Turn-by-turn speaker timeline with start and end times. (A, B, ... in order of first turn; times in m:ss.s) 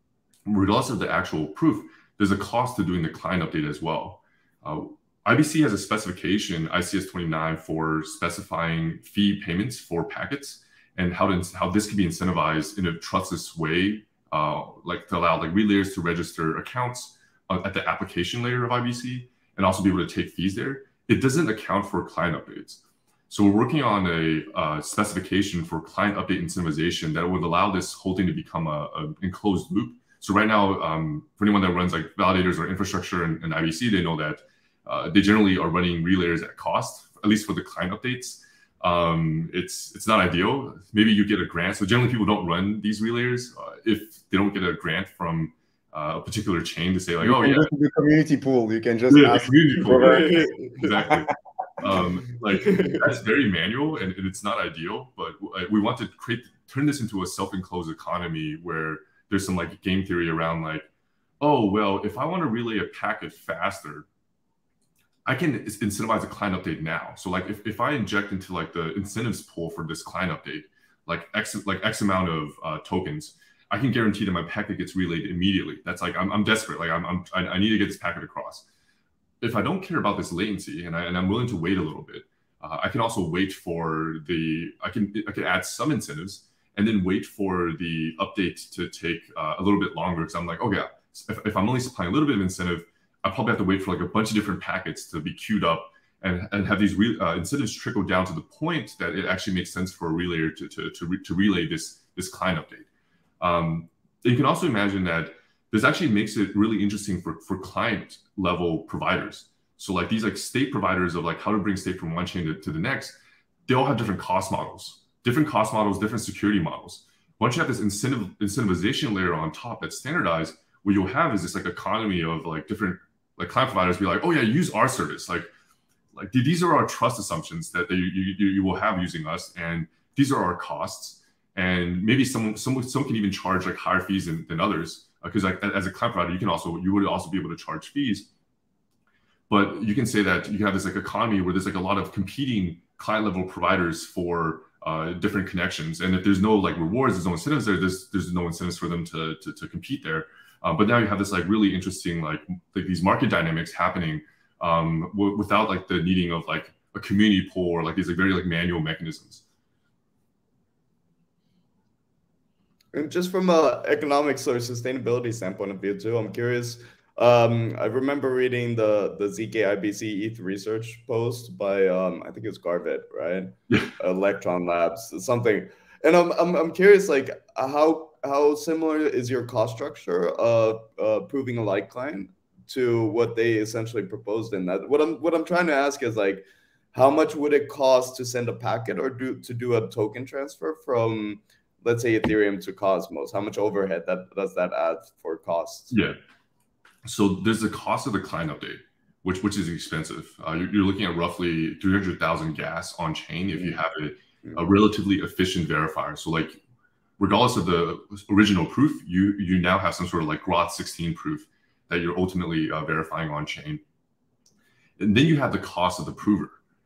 0:00.5-0:47.7 A
0:47.2-0:51.2 B
0:49.1-1:00.9 A
0:49.9-0:50.9 C
0:52.5-0:53.1 C
1:01.4-1:04.1 A
1:05.3-1:18.6 A
1:19.4-1:42.9 A
1:43.4-2:05.5 A
2:06.1-2:18.3 A
2:19.5-2:39.4 A
2:42.9-3:16.0 C
3:15.9-3:16.2 A
3:17.0-3:26.6 A
3:23.5-3:23.8 C
3:27.2-3:33.8 A
3:35.0-3:36.6 A